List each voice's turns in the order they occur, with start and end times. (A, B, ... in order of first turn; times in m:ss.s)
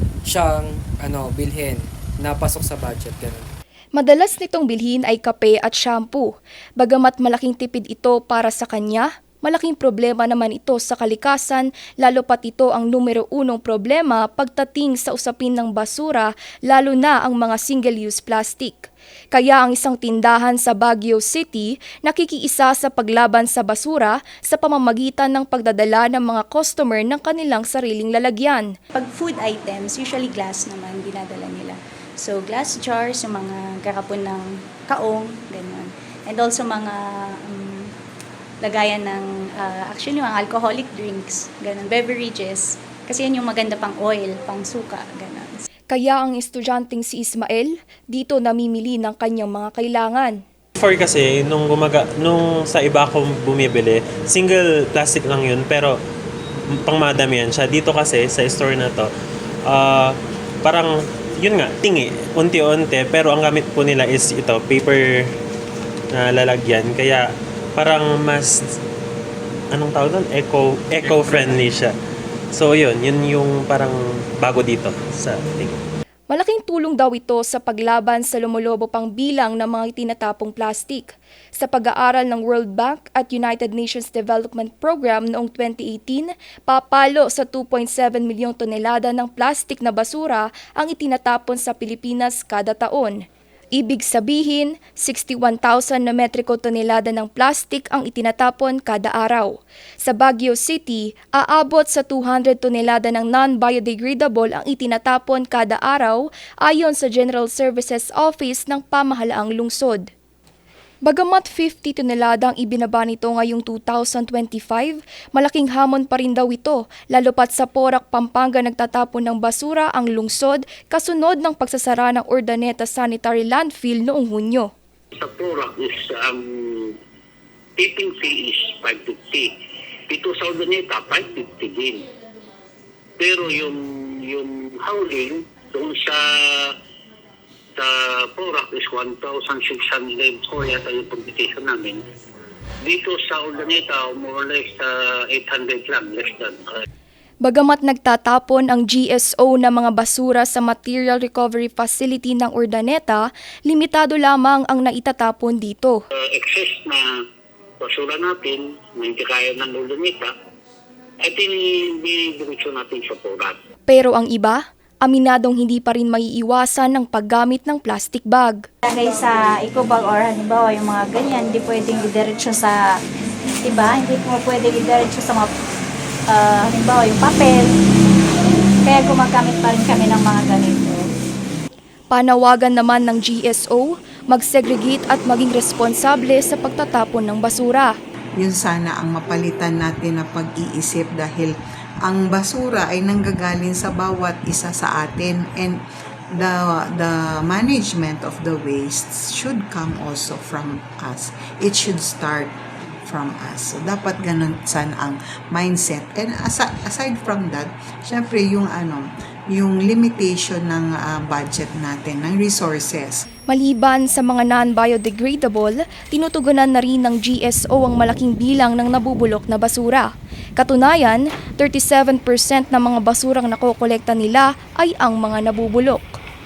0:00.2-0:03.5 A
0:03.9-0:28.7 B
0:28.9-0:37.9 C
0:38.6-0:45.6 C
0:45.9-0:50.4 B
0:50.8-0:55.9 D
0:56.8-0:59.1 D
0:59.7-1:00.1 D
1:00.6-1:05.2 D
1:06.1-1:07.2 D
1:07.8-1:08.5 D
1:09.7-1:11.9 D
1:12.5-1:15.8 D
1:16.3-1:33.2 B
1:33.7-1:50.1 B
1:51.0-2:04.7 B
2:05.2-2:06.9 E
2:07.8-2:09.5 E
2:10.1-2:12.0 E
2:13.2-2:16.7 E
2:17.8-2:22.0 E
2:22.8-2:26.7 E
2:27.4-2:36.0 B
2:36.3-2:37.0 E
2:37.8-2:40.3 E
2:41.2-2:43.6 E
2:43.9-2:48.6 B
2:48.8-2:52.8 C
2:53.6-2:55.5 C
2:56.3-2:57.7 C
2:58.8-3:01.0 C
3:02.1-3:07.9 B
3:08.4-3:15.8 F
3:16.4-3:33.2 F
3:33.5-3:46.2 B